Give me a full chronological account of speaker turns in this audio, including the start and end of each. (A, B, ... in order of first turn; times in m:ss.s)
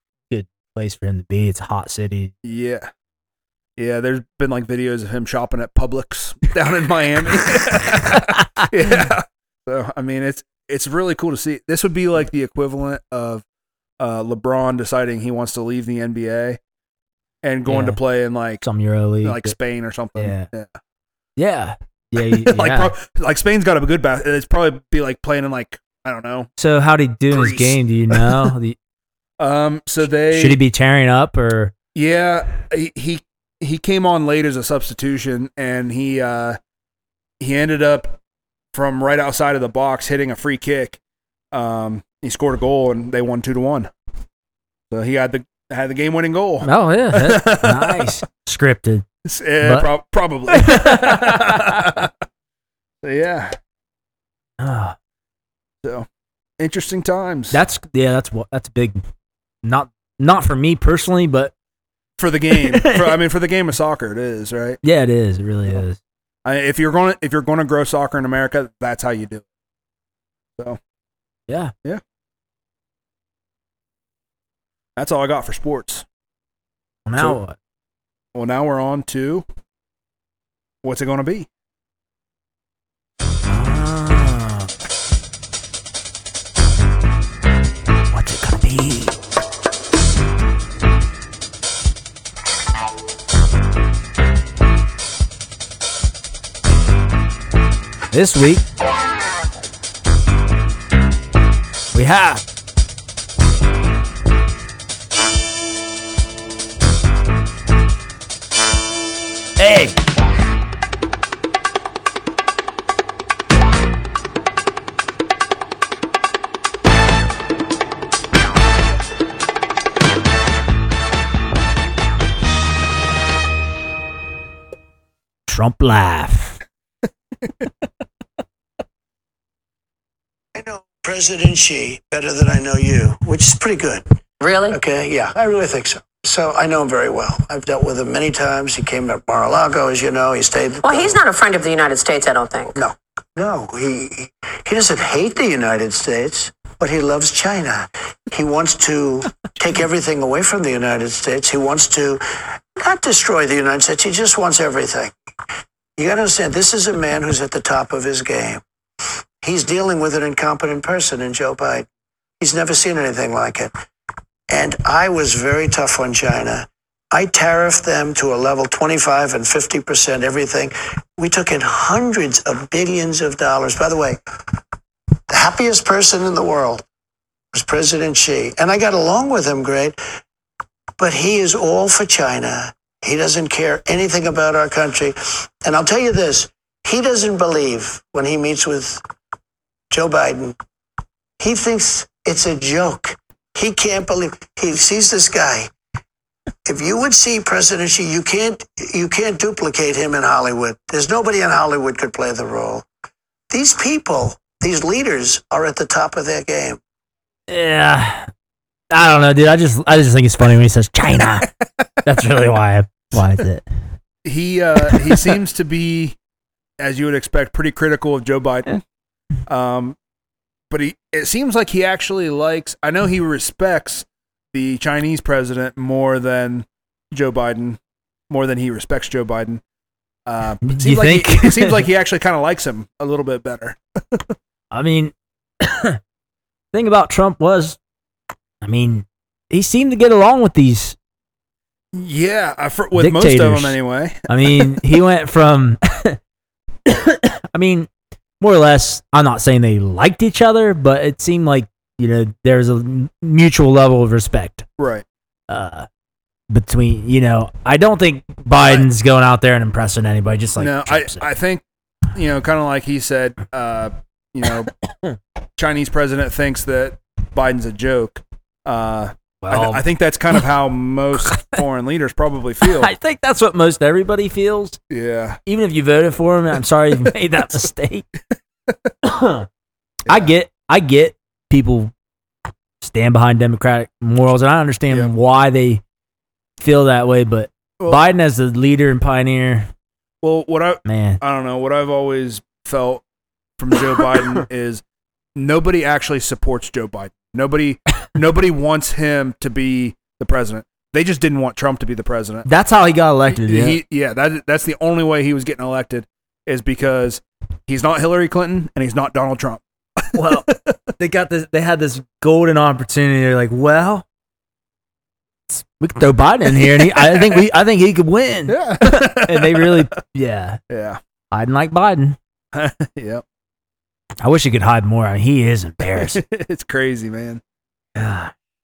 0:00.3-0:02.3 A
0:02.4-0:02.9 B
0:03.8-0:13.4 B
0:07.9-0:08.7 A
0:14.0-0:16.6 B
0:17.4-0:18.6 B
0:17.6-0:18.0 A
0:18.6-0:19.5 A
0:19.2-0:20.7 B
0:20.2-0:20.5 A
0:21.4-0:22.9 A
0:22.2-0:26.5 B
0:26.6-0:28.8 A
0:27.3-0:28.5 B
0:29.4-0:30.6 B
0:30.3-0:31.7 A
0:31.9-0:36.6 B
0:37.4-0:38.2 B
0:38.7-0:41.0 B
0:41.5-0:43.9 B
0:44.9-0:48.1 B
0:46.6-0:49.0 A
0:49.2-0:52.1 B
0:49.6-0:49.9 A
0:50.5-0:52.0 A
0:53.0-0:53.6 B
0:54.6-0:54.9 A
0:56.6-0:57.6 B
0:57.5-0:59.0 A
0:59.6-1:01.5 A
1:02.2-1:04.8 B
1:02.6-1:03.2 A
1:04.8-1:06.0 A
1:06.4-1:09.4 B
1:11.5-1:11.7 A
1:15.0-1:16.0 B
1:17.0-1:17.6 A
1:18.3-1:19.4 B
1:20.8-1:21.5 B
1:23.5-1:24.7 A
1:28.1-1:29.2 A
1:38.1-1:38.6 A
1:41.9-1:42.4 A
1:49.6-1:50.0 A
2:05.5-2:06.6 A
2:10.5-2:14.0 C
2:14.4-2:14.8 D
2:14.7-2:21.2 C
2:20.8-2:22.8 D
2:22.8-2:32.2 C
2:32.8-2:35.1 C
2:36.0-2:38.6 C
2:39.4-2:41.9 C
2:42.4-2:43.7 C
2:44.5-2:54.2 C
2:55.3-2:56.8 C
2:57.5-3:00.0 C
3:01.0-3:09.0 C
3:09.9-3:10.6 C
3:11.4-3:15.7 C
3:16.6-3:22.8 C
3:23.5-3:26.8 C
3:27.5-3:28.3 A
3:28.9-3:31.5 A
3:32.0-3:33.6 A
3:34.2-3:36.2 B
3:34.9-3:35.2 A
3:36.8-3:38.8 B
3:39.5-3:40.0 B
3:40.7-3:47.8 B
3:48.3-3:49.6 B
3:50.2-3:54.3 B
3:50.6-3:51.8 A
3:54.7-3:56.0 A
3:56.7-3:57.8 A
3:58.6-4:01.0 A
4:01.9-4:04.8 B
4:03.0-4:06.2 A
4:06.8-4:07.9 A
4:08.4-4:14.6 A
4:14.8-4:15.0 B
4:15.5-4:15.9 A
4:16.5-4:21.3 A
4:18.5-4:18.9 B
4:20.6-4:21.6 B
4:22.1-4:24.7 B
4:25.6-4:32.9 B
4:29.4-4:29.8 A
4:32.6-4:34.8 A
4:34.9-4:35.4 B
4:35.4-4:38.1 A
4:39.0-4:39.5 A
4:40.1-4:41.9 A
4:42.8-4:45.8 A
4:46.6-4:49.7 A
4:50.2-4:53.0 B
4:50.8-4:51.2 A
4:53.6-4:54.8 B
4:55.4-5:02.5 B
5:02.4-5:03.8 A
5:03.3-5:10.7 B
5:10.1-5:14.0 A
5:15.5-5:20.6 A
5:16.6-5:17.4 B
5:18.5-5:19.8 B
5:20.7-5:21.0 B
5:21.3-5:22.2 A
5:22.5-5:23.2 B
5:24.2-5:26.2 A
5:25.8-5:27.4 B
5:28.0-5:28.3 A